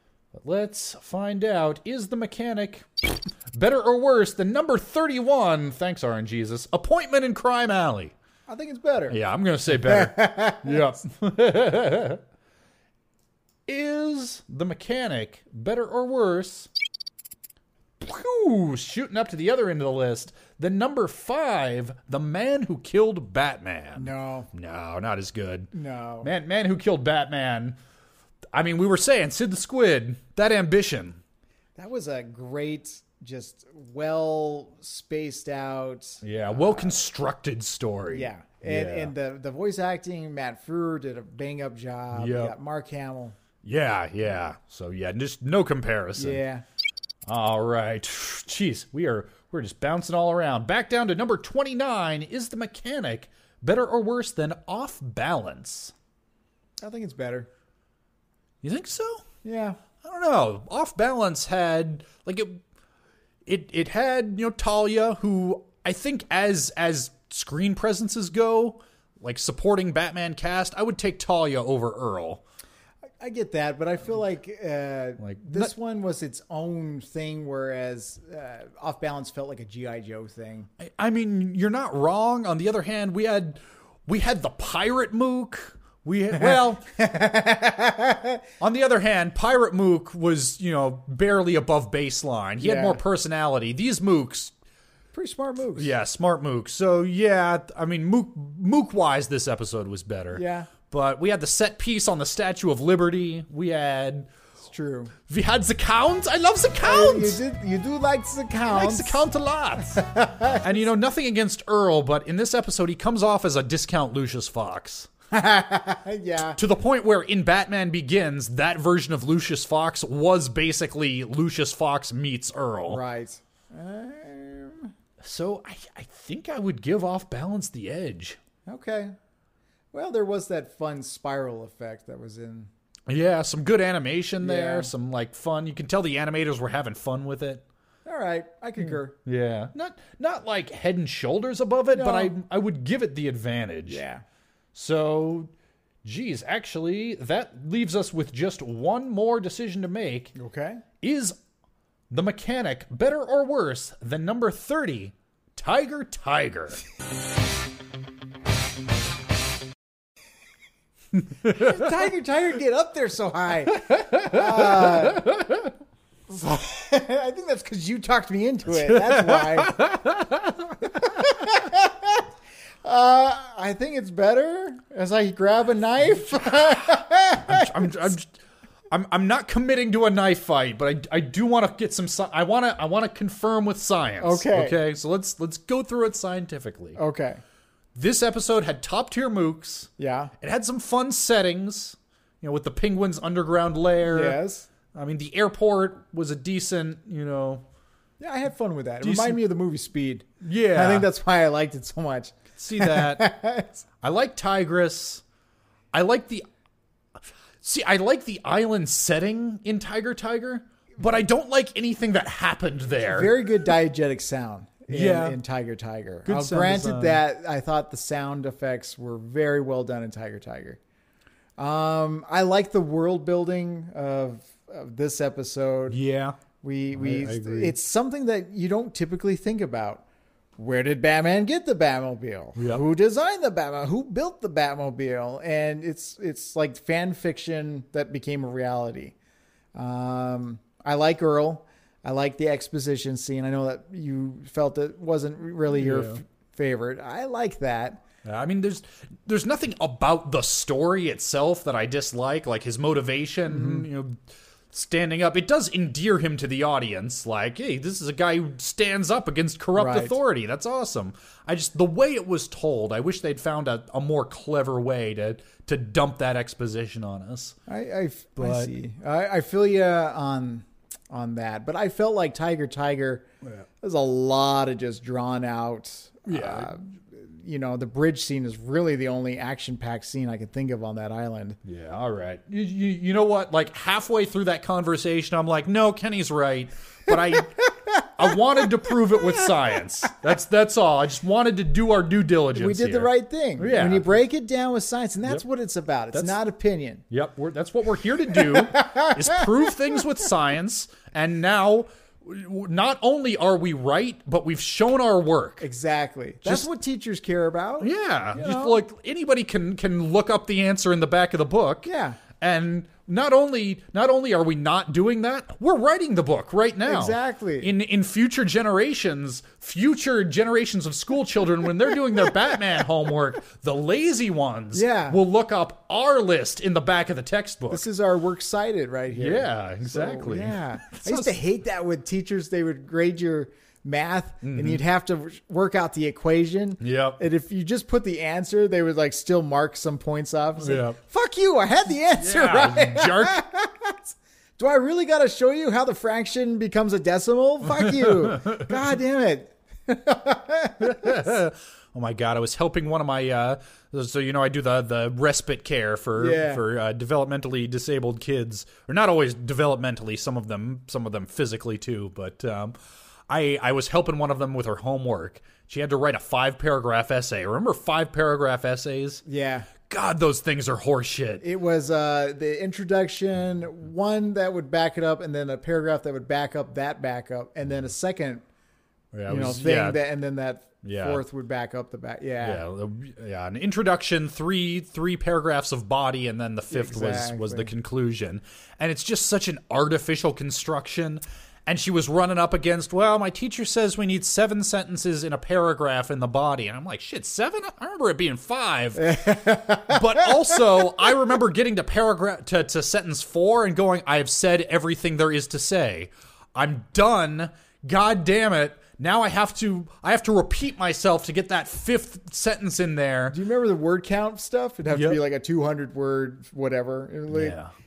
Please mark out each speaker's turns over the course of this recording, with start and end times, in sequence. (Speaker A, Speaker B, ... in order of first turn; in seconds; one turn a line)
Speaker A: 0.3-8.1
Speaker B: 8.5-9.2
Speaker A: 9.1-12.2
Speaker B: 9.7-11.0
Speaker A: 13.7-16.7
Speaker A: 18.0-25.7
Speaker B: 23.9-24.5
Speaker B: 25.7-26.3
Speaker A: 26.2-27.8
Speaker A: 28.5-31.2
Speaker B: 31.8-37.0
Speaker A: 36.2-39.1
Speaker B: 38.1-43.4
Speaker A: 42.1-42.5
Speaker A: 43.6-46.4
Speaker B: 46.1-46.6
Speaker A: 47.2-55.9
Speaker B: 56.8-57.5
Speaker A: 58.6-59.2
Speaker B: 59.4-59.8
Speaker A: 60.0-62.6
Speaker A: 63.5-72.4
Speaker B: 73.2-80.7
Speaker A: 75.2-75.7
Speaker A: 80.8-86.8
Speaker B: 86.3-88.4
Speaker A: 88.6-94.5
Speaker B: 92.6-93.0
Speaker B: 95.1-95.9
Speaker A: 95.8-104.3
Speaker B: 100.3-100.7
Speaker B: 104.6-105.1
Speaker A: 105.3-107.4
Speaker B: 106.8-109.2
Speaker A: 108.7-110.0
Speaker B: 109.9-110.8
Speaker A: 110.6-115.1
Speaker B: 115.3-116.6
Speaker A: 116.5-123.0
Speaker B: 122.9-124.9
Speaker A: 125.2-128.4
Speaker B: 128.7-129.2
Speaker B: 129.9-132.7
Speaker A: 133.1-137.6
Speaker B: 134.4-134.9
Speaker B: 138.0-139.2
Speaker A: 138.8-144.0
Speaker B: 141.9-142.3
Speaker B: 143.9-144.2
Speaker A: 144.7-145.5
Speaker A: 146.0-150.3
Speaker B: 150.3-150.8
Speaker A: 151.0-151.4
Speaker A: 152.1-156.8
Speaker A: 161.4-161.7
Speaker B: 161.4-165.3
Speaker A: 163.9-165.7
Speaker B: 166.3-169.9
Speaker A: 168.8-171.1
Speaker B: 170.8-172.3
Speaker B: 172.8-178.1
Speaker A: 176.5-178.4
Speaker A: 178.9-187.0
Speaker B: 184.2-184.8
Speaker B: 187.0-187.4
Speaker A: 187.9-194.4
Speaker B: 190.0-190.3
Speaker B: 194.0-194.7
Speaker A: 194.9-197.6
Speaker B: 198.2-203.8
Speaker A: 199.0-199.4
Speaker A: 200.4-201.1
Speaker A: 202.6-203.3
Speaker A: 204.0-205.2
Speaker A: 205.9-206.4
Speaker A: 207.6-213.3
Speaker B: 213.0-220.8
Speaker A: 214.9-215.4
Speaker A: 216.2-217.2
Speaker B: 221.6-226.0
Speaker A: 225.9-226.4
Speaker B: 226.6-230.0
Speaker A: 226.9-227.8
Speaker B: 230.6-239.1
Speaker A: 232.6-232.8
Speaker B: 239.7-248.0
Speaker A: 245.7-246.2
Speaker A: 248.2-254.2
Speaker B: 253.5-253.9
Speaker A: 254.7-267.6
Speaker B: 259.7-260.1
Speaker B: 267.7-273.2
Speaker A: 268.4-268.7
Speaker B: 273.8-281.6
Speaker A: 276.3-276.7
Speaker A: 281.6-294.2
Speaker B: 287.6-289.6
Speaker B: 292.5-297.0
Speaker A: 297.1-305.6
Speaker B: 298.3-300.0
Speaker B: 305.6-308.8
Speaker A: 307.8-327.9
Speaker B: 311.9-312.2
Speaker B: 316.9-317.7
Speaker B: 324.7-325.2
Speaker B: 327.7-351.3
Speaker A: 329.1-331.3
Speaker A: 334.4-334.8
Speaker A: 336.8-337.2
Speaker A: 340.6-341.0
Speaker A: 342.1-343.4
Speaker A: 347.7-348.7
Speaker A: 350.8-362.7
Speaker B: 356.2-356.6
Speaker A: 363.3-369.2
Speaker B: 369.2-369.7
Speaker A: 369.9-371.4
Speaker B: 371.4-378.4
Speaker A: 379.1-380.0
Speaker B: 379.3-382.6
Speaker A: 380.8-381.2
Speaker A: 382.4-413.4
Speaker B: 386.7-387.7
Speaker B: 399.0-401.1
Speaker B: 413.3-417.6
Speaker A: 414.9-415.2
Speaker A: 417.3-417.7